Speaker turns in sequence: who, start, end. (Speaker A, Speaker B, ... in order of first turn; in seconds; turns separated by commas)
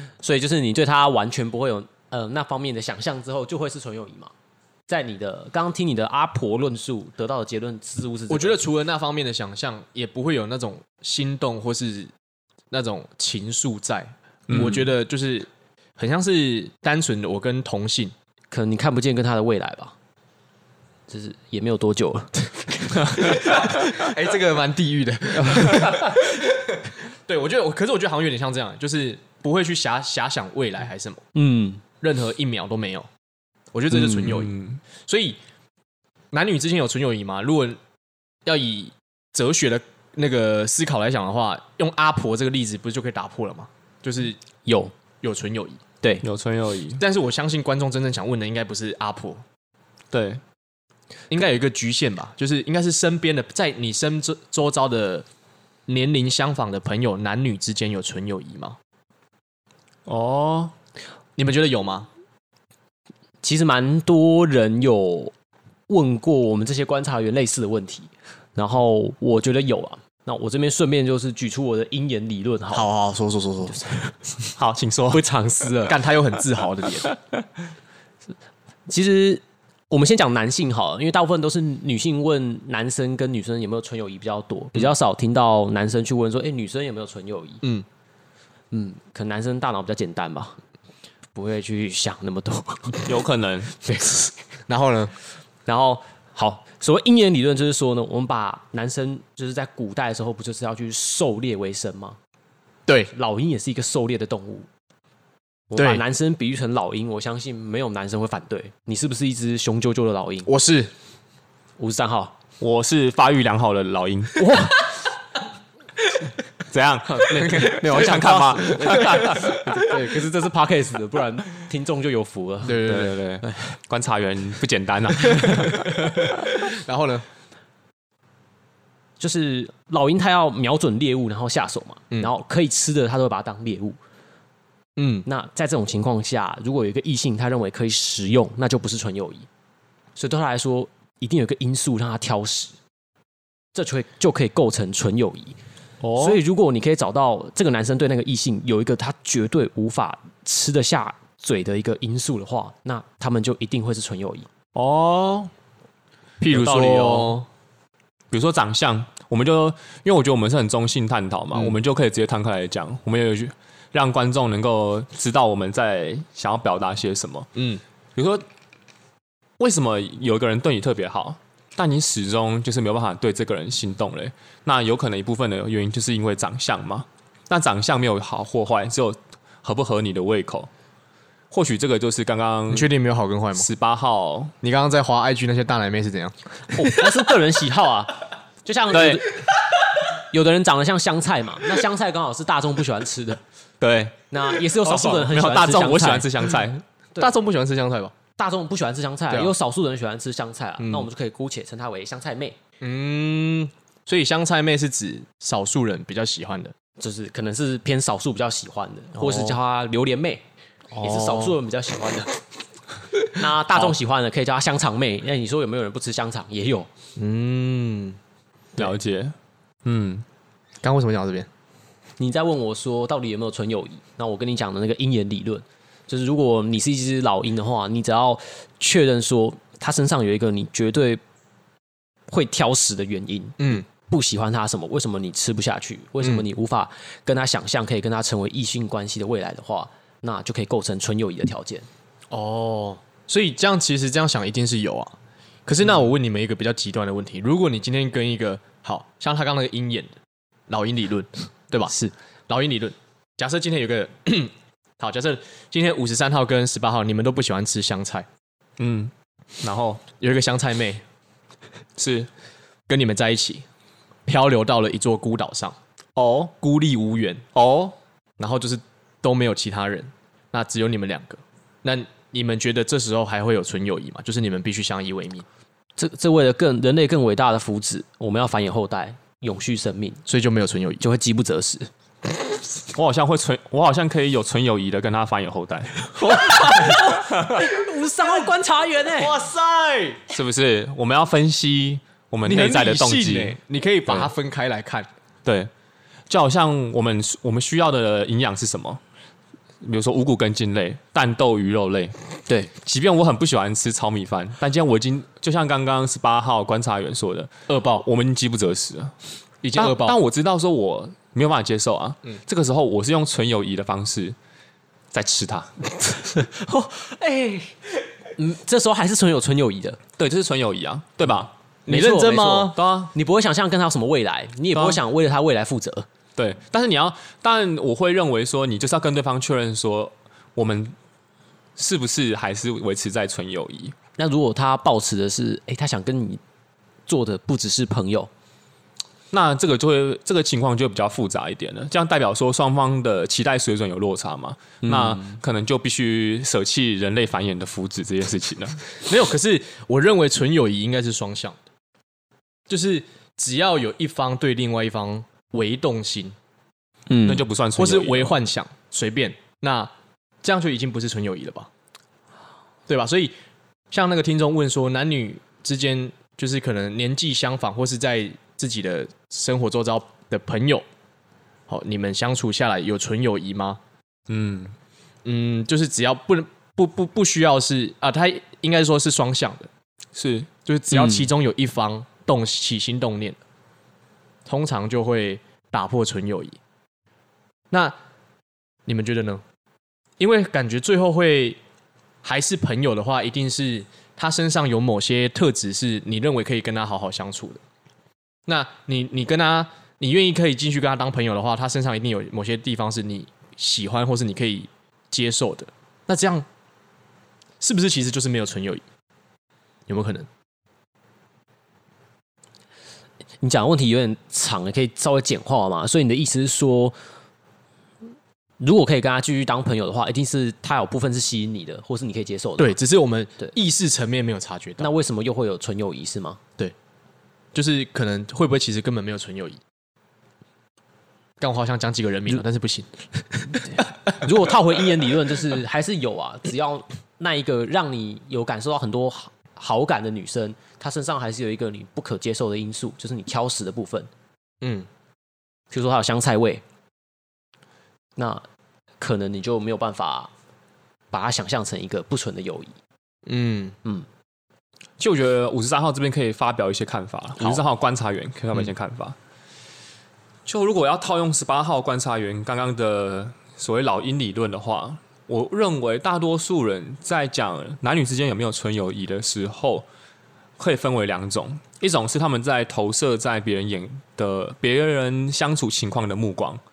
Speaker A: 0.2-4.3, Speaker A: 4.9-8.6, Speaker B: 8.3-12.1, Speaker B: 12.7-18.1, Speaker C: 14.5-14.9, Speaker A: 18.5-19.9, Speaker A: 21.1-23.6, Speaker B: 23.1-31.2, Speaker A: 31.3-31.8, Speaker B: 32.0-33.1, Speaker B: 33.7-35.4, Speaker C: 34.0-34.8, Speaker B: 36.3-37.8, Speaker B: 38.5-44.4, Speaker A: 44.6-44.9, Speaker B: 45.2-45.8, Speaker C: 46.2-47.0, Speaker B: 47.0-49.4, Speaker C: 50.1-50.4, Speaker B: 51.3-55.2, Speaker B: 55.9-58.8, Speaker C: 60.0-60.7, Speaker B: 61.4-62.1, Speaker A: 63.4-65.3, Speaker A: 65.9-72.9, Speaker B: 72.7-73.9, Speaker A: 73.8-74.1, Speaker C: 74.5-75.2, Speaker A: 75.1-76.0, Speaker B: 75.8-77.1, Speaker A: 78.9-87.6, Speaker A: 88.7-90.6, Speaker A: 91.3-93.2, Speaker C: 93.0-93.7, Speaker B: 94.7-95.1, Speaker A: 95.7-102.2, Speaker A: 103.1-104.7, Speaker A: 105.7-110.5, Speaker B: 105.8-106.0, Speaker B: 110.4-110.9, Speaker A: 111.8-112.3, Speaker C: 112.6-114.6, Speaker A: 114.4-114.9, Speaker C: 116.7-119.5, Speaker B: 117.2-119.9, Speaker A: 117.2-122.8, Speaker B: 122.6-123.2, Speaker C: 122.8-126.3, Speaker B: 125.3-127.2, Speaker A: 129.2-134.0, Speaker B: 135.0-135.2, Speaker A: 135.2-139.5, Speaker A: 140.2-142.7, Speaker A: 143.7-145.6, Speaker C: 146.0-146.4, Speaker A: 146.2-154.5, Speaker C: 154.7-155.5, Speaker B: 156.4-157.5, Speaker C: 156.4-157.4, Speaker C: 158.3-167.5, Speaker B: 167.5-167.8, Speaker C: 168.2-168.4, Speaker C: 169.6-180.7, Speaker C: 181.5-182.9, Speaker B: 182.7-183.7, Speaker C: 183.5-184.5, Speaker B: 184.6-186.8, Speaker A: 186.7-189.4, Speaker C: 188.9-189.2, Speaker A: 190.1-193.4, Speaker C: 193.8-194.3, Speaker A: 194.3-196.3, Speaker C: 194.8-196.8, Speaker B: 194.9-195.2, Speaker B: 197.2-198.1, Speaker A: 198.4-202.6, Speaker B: 200.8-201.1, Speaker B: 202.8-206.7, Speaker A: 207.0-210.4, Speaker B: 209.2-209.6, Speaker B: 211.0-211.5, Speaker A: 211.0-212.4, Speaker A: 213.2-216.9, Speaker B: 217.2-218.2, Speaker C: 218.8-220.2, Speaker B: 220.8-221.5, Speaker A: 222.2-231.2, Speaker A: 232.3-241.9, Speaker B: 233.6-233.8, Speaker B: 242.3-245.1, Speaker B: 245.7-250.2, Speaker B: 250.7-251.9, Speaker B: 252.5-258.3, Speaker C: 258.8-260.0, Speaker B: 260.2-261.0, Speaker C: 262.0-262.3, Speaker B: 262.9-263.6, Speaker B: 264.3-265.8, Speaker C: 266.1-266.5, Speaker B: 266.6-267.4, Speaker C: 267.5-267.9, Speaker B: 268.4-275.4, Speaker A: 276.0-280.2, Speaker B: 280.3-281.0, Speaker A: 281.0-281.9, Speaker C: 282.9-286.1, Speaker A: 286.2-289.4, Speaker B: 286.2-287.1, Speaker C: 287.1-287.7, Speaker B: 289.1-290.2, Speaker C: 290.3-293.6, Speaker B: 292.4-295.1, Speaker C: 295.4-295.7, Speaker C: 296.3-299.0, Speaker C: 299.8-302.1, Speaker C: 302.7-309.1, Speaker B: 307.7-308.1, Speaker B: 309.6-310.2, Speaker C: 309.7-314.4, Speaker C: 315.1-315.8, Speaker A: 316.2-317.8, Speaker A: 318.4-320.0, Speaker C: 320.2-321.5, Speaker B: 321.9-322.8, Speaker A: 321.9-326.1, Speaker C: 322.7-323.1, Speaker C: 324.7-325.0, Speaker C: 326.4-330.9, Speaker C: 331.8-333.9, Speaker A: 334.2-336.4, Speaker A: 337.1-338.3, Speaker C: 339.3-348.8, Speaker A: 344.8-345.4, Speaker B: 349.0-351.6, Speaker B: 352.7-356.4, Speaker A: 357.1-357.4, Speaker C: 357.2-358.4, Speaker B: 357.8-359.9, Speaker B: 360.4-361.7, Speaker B: 362.9-363.3, Speaker B: 363.9-370.8, Speaker B: 371.7-373.8, Speaker C: 374.3-374.8, Speaker B: 375.2-379.7, Speaker C: 380.1-380.5, Speaker B: 380.6-383.4, Speaker A: 380.9-381.3, Speaker B: 384.4-386.6, Speaker B: 387.7-387.9, Speaker B: 388.9-389.4, Speaker B: 390.2-391.6, Speaker B: 392.2-397.6, Speaker B: 398.5-406.4, Speaker B: 407.6-408.8, Speaker B: 409.9-410.3, Speaker A: 413.4-416.9, Speaker A: 418.6-422.8, Speaker B: 422.6-424.9, Speaker A: 424.8-426.4, Speaker B: 427.5-429.6, Speaker B: 431.4-432.9, Speaker B: 433.4-434.2, Speaker A: 433.5-444.1, Speaker B: 444.6-444.9, Speaker A: 445.7-446.6, Speaker A: 448.2-448.4, Speaker A: 449.0-450.3, Speaker A: 451.1-452.7, Speaker B: 453.2-453.8, Speaker C: 455.0-459.2, Speaker C: 460.4-469.9, Speaker C: 470.6-476.6